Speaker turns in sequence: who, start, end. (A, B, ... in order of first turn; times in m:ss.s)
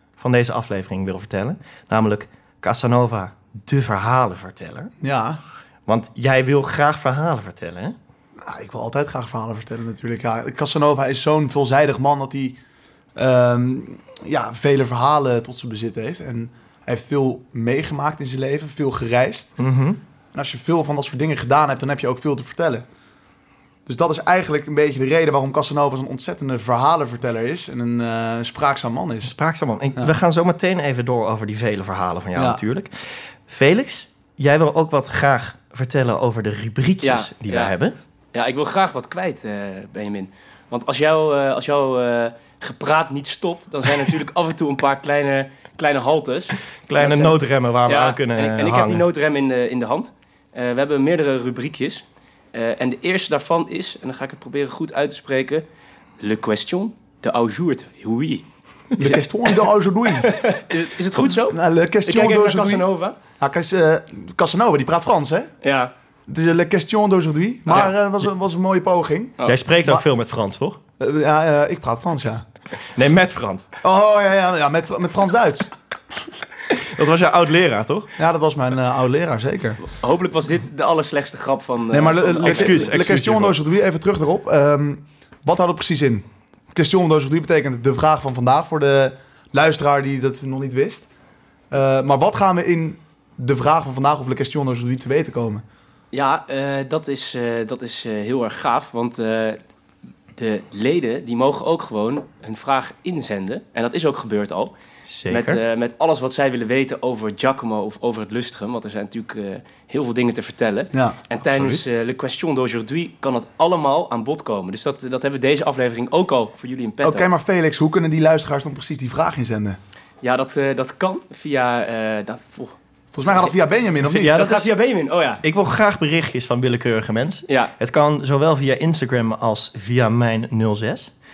0:00.2-0:04.9 A
0:05.0-0:05.4 B
0:05.9-0:08.0 A
0:08.4-0:12.6 B
0:13.2-0:19.5 B
0:19.6-0:20.0 A
0:20.3-0:22.8 B
0:23.9-0:29.3 B
0:29.2-0:37.9 A
0:32.4-0:32.6 B
0:37.0-0:37.7 C
0:38.3-0:55.6 C
0:46.9-0:49.0 A
0:56.2-0:58.4 C
0:59.0-1:00.3 B
0:59.0-0:59.5 C
1:00.2-1:03.2 C
1:01.4-1:02.8 B
1:03.4-1:05.5 B
1:05.6-1:05.9 C
1:06.3-1:10.0 B
1:09.5-1:10.8 A
1:11.0-1:12.4 B
1:12.9-1:13.7 A
1:13.8-1:15.7 B
1:16.7-1:18.1 A
1:18.2-1:19.8 B
1:19.9-1:22.9 C
1:21.9-1:31.1 B
1:22.4-1:23.6 A
1:31.7-1:35.6 B
1:36.1-1:39.6 C
1:40.4-1:44.7 C
1:45.1-1:45.6 A
1:45.3-1:57.3 C
1:51.4-1:51.8 A
1:57.0-1:59.8 B
2:00.2-2:03.6 C
2:03.1-2:04.4 B
2:04.1-2:05.4 C
2:04.1-2:04.7 A
2:05.4-2:11.1 A